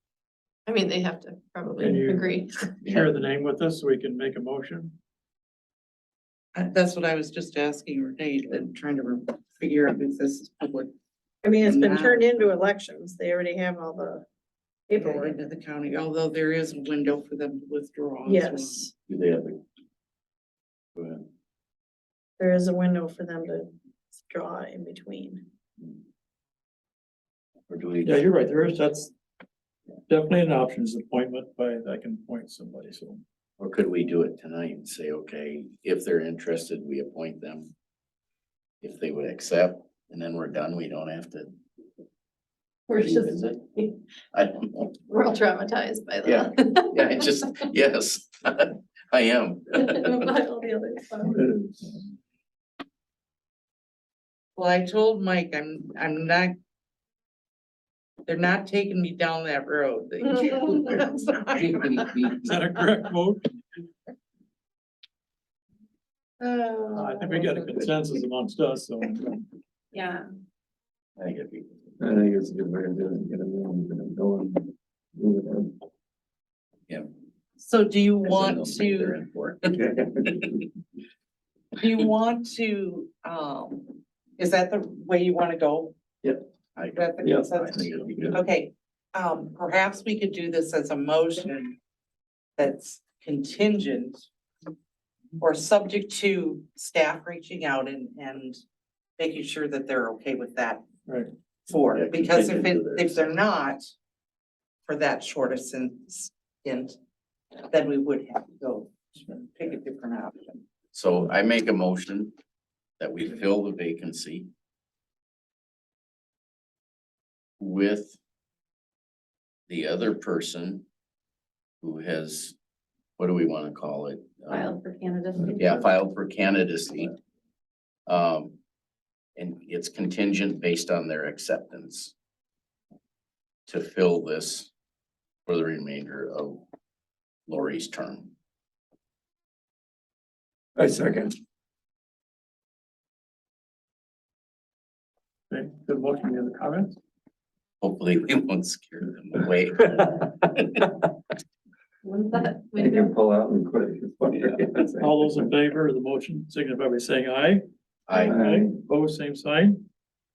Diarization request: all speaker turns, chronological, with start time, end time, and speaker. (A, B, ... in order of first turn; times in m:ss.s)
0:00.6-0:02.7 A
0:01.8-0:04.9 B
0:06.5-0:10.9 C
0:11.4-0:14.2 D
0:11.6-0:12.5 C
0:14.9-0:15.2 D
0:14.9-0:18.9 C
0:18.2-0:18.9 D
0:19.1-0:19.6 E
0:20.9-0:21.3 E
0:22.4-0:25.4 D
0:27.7-0:28.3 E
0:28.0-0:29.1 B
0:30.1-0:33.2 B
0:33.6-0:37.7 E
0:38.8-0:41.5 E
0:42.9-0:43.9 A
0:43.0-0:43.6 E
0:44.3-0:44.9 E
0:45.1-0:47.2 A
0:46.2-0:50.3 E
0:49.7-0:51.4 A
0:51.2-0:52.0 B
0:54.6-0:56.5 C
0:58.2-1:02.3 C
1:01.5-1:02.5 E
1:02.4-1:03.4 B
1:06.4-1:08.0 C
1:06.9-1:09.3 B
1:09.9-1:10.3 A
1:11.2-1:11.9 E
1:12.0-1:15.7 F
1:17.6-1:19.1 C
1:18.2-1:19.8 E
1:19.7-1:20.6 F
1:21.8-1:25.9 C
1:26.8-1:28.4 E
1:26.9-1:31.7 C
1:27.9-1:28.4 B
1:32.6-1:34.3 C
1:35.4-1:38.6 C
1:39.2-1:40.8 C
1:41.7-1:43.8 C
1:41.9-1:43.3 E
1:44.8-1:46.9 C
1:47.7-1:50.6 C
1:50.9-1:52.3 E
1:53.0-1:54.5 E
1:57.6-1:58.2 E
1:59.7-2:00.8 E
2:01.8-2:02.6 E
2:03.2-2:04.8 E
2:04.5-2:05.8 A
2:05.6-2:07.2 E
2:08.1-2:08.6 E
2:09.4-2:12.1 E
2:13.7-2:14.7 E
2:15.4-2:16.6 E
2:17.5-2:18.3 E
2:20.8-2:21.3 F
2:25.5-2:26.9 B
2:27.8-2:30.8 E
2:32.0-2:33.1 A
2:32.3-2:35.5 F
2:35.0-2:37.6 B
2:38.1-2:38.4 E
2:38.3-2:38.7 F
2:38.3-2:39.8 B